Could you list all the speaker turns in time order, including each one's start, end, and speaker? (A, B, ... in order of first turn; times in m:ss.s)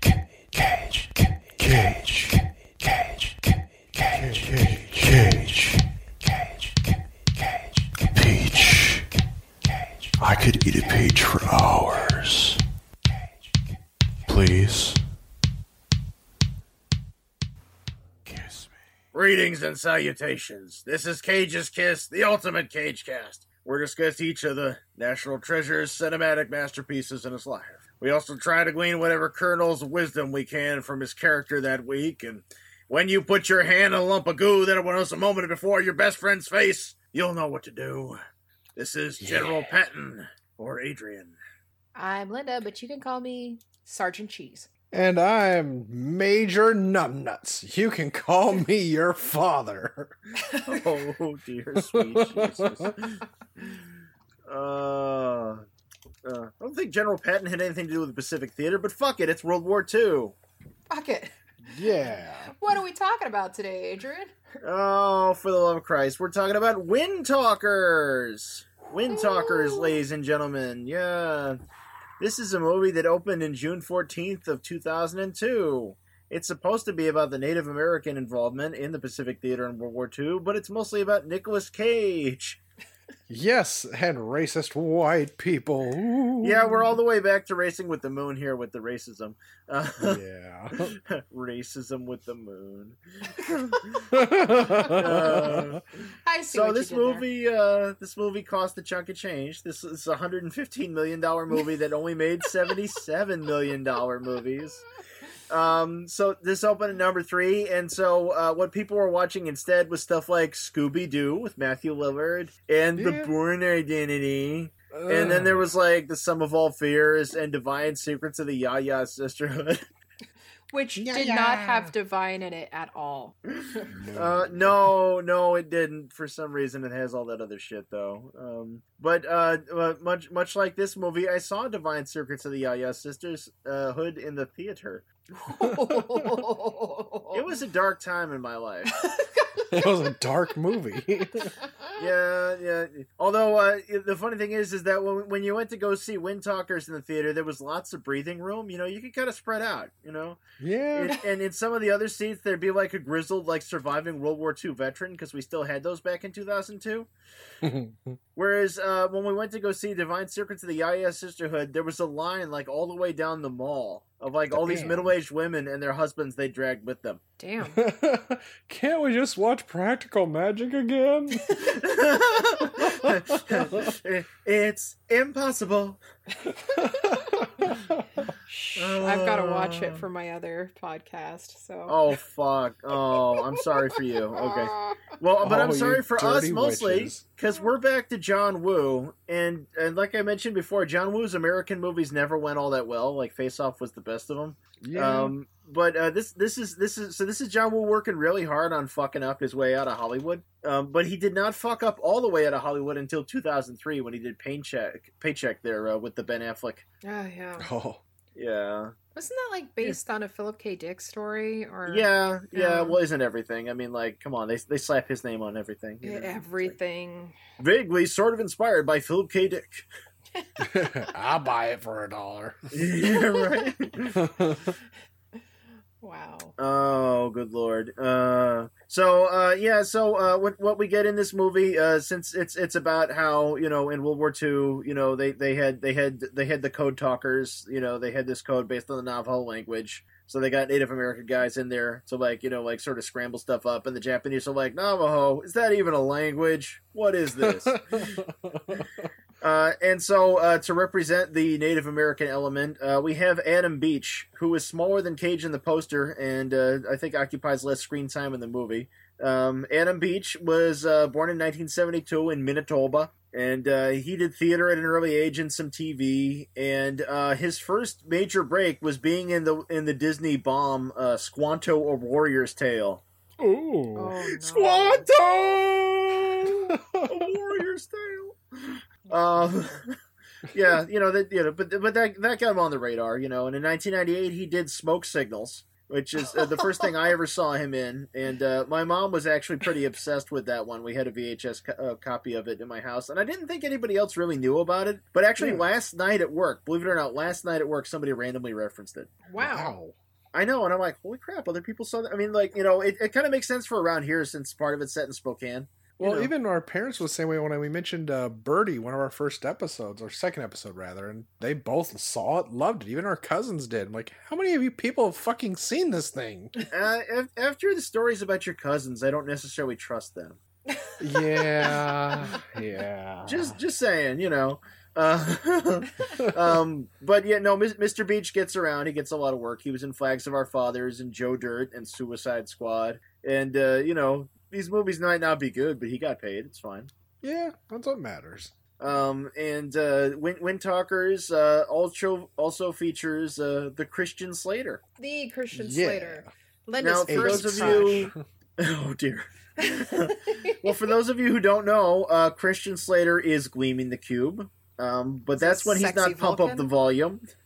0:00.5-0:00.8 A
0:01.6-0:03.4 A
0:04.0-0:05.9 A
0:08.0-0:09.2 A
0:10.2-0:12.6 A
0:14.3-0:15.0 A
0:18.2-0:18.7 A
0:19.1-0:38.2 B
0:38.8-0:41.4 B
0:39.2-0:39.6 C
0:42.0-0:44.7 D
0:44.9-0:50.2 C
0:50.4-0:50.8 D
0:50.6-0:53.8 B
0:51.8-0:53.0 C
0:54.5-0:55.6 B
0:56.2-1:00.3 B
1:00.9-1:04.3 D
1:01.7-1:02.5 C
1:04.6-1:11.6 B
1:09.2-1:10.0 D
1:12.2-1:22.6 B
1:23.3-1:26.6 C
1:26.4-1:30.2 B
1:30.0-1:30.9 C
1:30.8-1:34.1 B
1:34.1-1:35.8 C
1:34.9-1:35.8 B
1:36.2-1:37.2 D
1:36.5-1:44.8 B
1:45.5-1:59.8 B
1:53.0-1:53.3 C
1:54.9-1:55.7 C
2:00.7-2:03.3 D
2:01.0-2:01.9 C
2:03.5-2:15.0 B
2:03.9-2:04.9 C
2:15.4-2:17.4 D
2:15.7-2:16.3 C
2:17.3-2:18.9 B
2:18.9-2:19.6 D
2:19.7-2:21.5 C
2:21.6-2:22.0 D
2:22.0-2:30.4 B
2:30.6-2:31.2 C
2:30.9-2:37.1 B
2:37.6-2:38.2 C
2:38.4-2:47.2 B
2:44.5-2:45.1 C
2:47.4-2:47.8 D
2:47.7-2:51.7 C
2:51.6-2:56.0 B
2:52.9-2:53.9 C
2:56.7-2:57.8 D
2:56.7-2:58.3 C
2:58.4-3:02.0 D
2:58.8-3:00.0 B
3:01.9-3:26.8 B
3:03.1-3:05.1 D
3:05.4-3:07.2 C
3:14.8-3:15.3 C
3:27.0-3:27.7 D
3:27.6-3:28.0 C
3:28.3-3:28.9 B
3:29.1-3:33.0 D
3:31.8-3:36.7 B
3:36.0-3:37.4 D
3:37.6-3:39.8 B
3:40.6-3:42.8 C
3:42.7-3:44.2 B
3:43.0-3:43.7 D
3:44.2-3:44.8 C
3:46.0-3:46.5 D
3:46.6-4:08.1 B
4:07.4-4:08.9 C
4:09.4-4:33.0 B
4:33.4-4:34.1 C
4:33.9-4:35.1 D
4:34.3-4:39.9 B
4:36.7-4:37.2 C
4:40.5-4:59.1 B
4:55.4-4:55.6 C
4:59.2-4:59.7 D
4:59.4-4:59.9 C
5:00.3-5:06.3 B
5:06.0-5:16.5 C
5:16.7-5:20.4 B
5:20.7-5:22.4 D
5:21.0-5:23.6 C
5:23.2-5:36.9 B
5:37.2-5:38.5 C
5:38.8-5:44.8 B
5:45.0-5:48.1 D
5:45.5-5:46.3 C
5:46.8-5:57.2 B
5:47.1-5:48.2 C
5:49.6-5:50.7 D
5:55.3-5:56.7 D